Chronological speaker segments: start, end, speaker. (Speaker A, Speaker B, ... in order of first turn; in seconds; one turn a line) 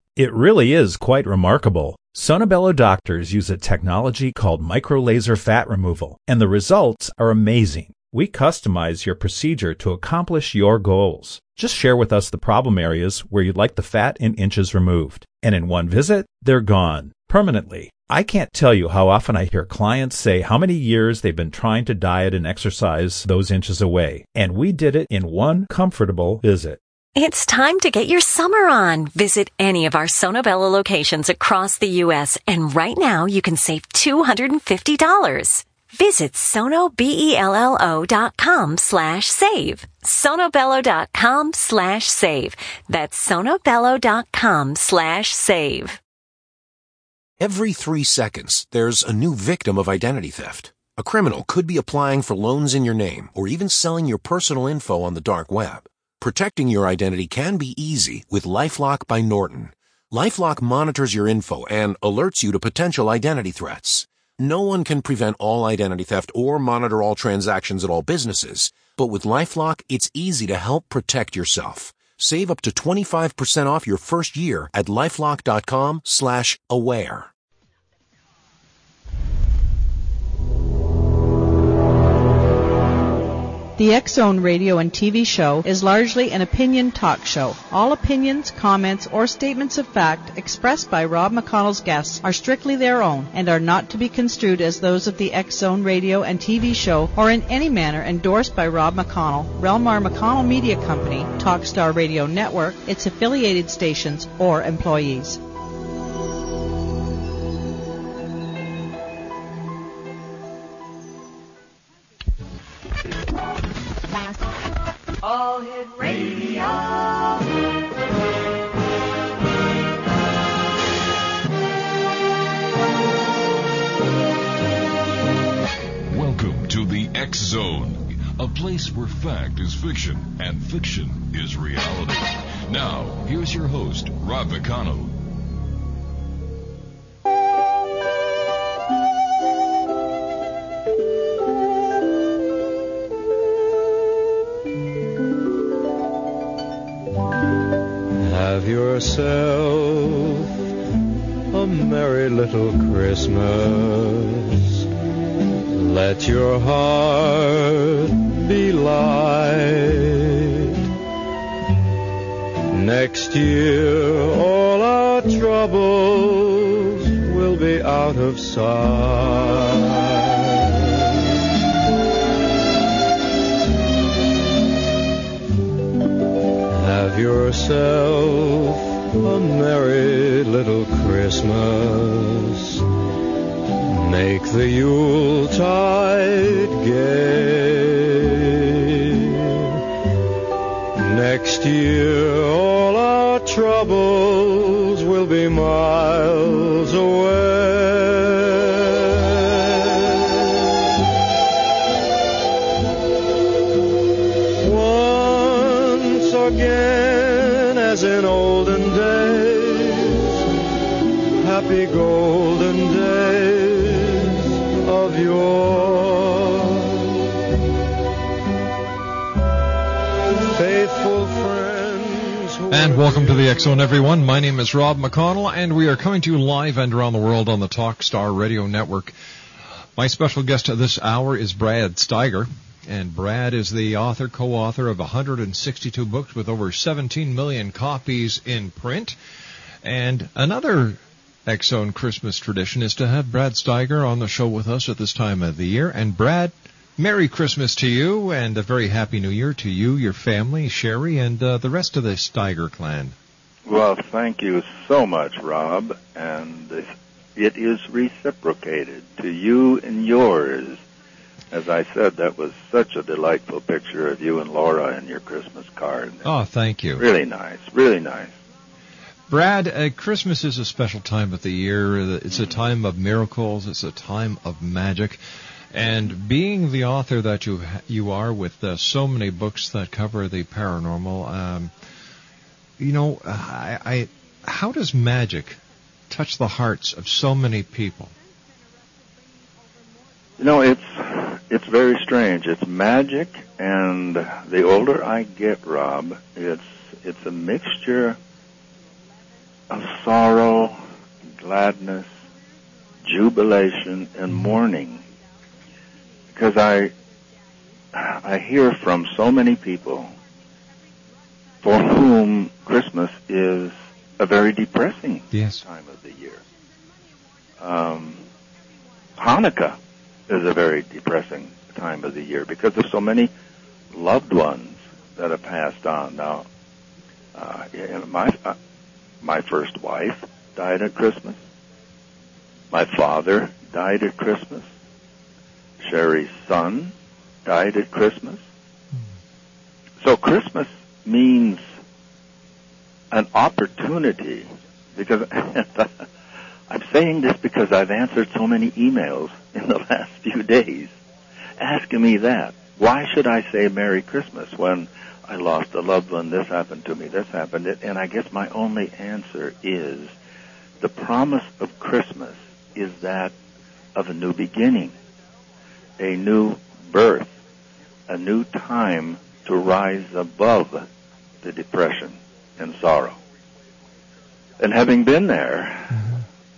Speaker A: 0.1-26.8
Speaker B: 27.1-46.0
Speaker C: 47.4-77.3
Speaker D: 83.8-105.4
Speaker E: 126.1-135.2
Speaker F: 148.2-150.4
Speaker F: 151.5-154.8
Speaker F: 155.7-160.7
Speaker F: 162.7-170.1
Speaker F: 176.7-182.8
Speaker F: 183.8-188.5
Speaker F: 190.9-198.7
Speaker F: 204.6-210.3
Speaker F: 211.4-216.8
Speaker F: 220.5-223.9
Speaker G: 222.7-229.1
Speaker G: 230.0-239.2
Speaker G: 239.8-253.1
Speaker H: 253.7-260.8
Speaker H: 261.5-266.2
Speaker G: 266.2-267.0
Speaker H: 266.9-268.3
Speaker G: 269.3-275.2
Speaker G: 275.7-281.7
Speaker G: 282.8-285.6
Speaker G: 286.1-288.1
Speaker H: 290.4-298.2
Speaker H: 299.7-300.8
Speaker H: 301.3-302.1
Speaker H: 303.0-305.0
Speaker H: 306.3-306.9
Speaker H: 307.9-310.1
Speaker H: 311.6-316.4
Speaker G: 315.3-315.6
Speaker H: 317.6-318.2
Speaker H: 319.2-319.8
Speaker H: 320.3-323.3
Speaker H: 323.9-326.4
Speaker H: 327.3-328.6
Speaker H: 329.2-331.4
Speaker H: 332.7-334.7
Speaker H: 335.8-336.9
Speaker H: 337.4-338.4
Speaker H: 340.0-341.6
Speaker H: 343.1-346.0
Speaker H: 346.7-350.9
Speaker H: 351.6-360.1
Speaker H: 360.8-363.3
Speaker H: 363.9-364.9
Speaker H: 366.0-367.3
Speaker H: 368.1-370.8
Speaker H: 371.4-373.2
Speaker H: 374.6-376.0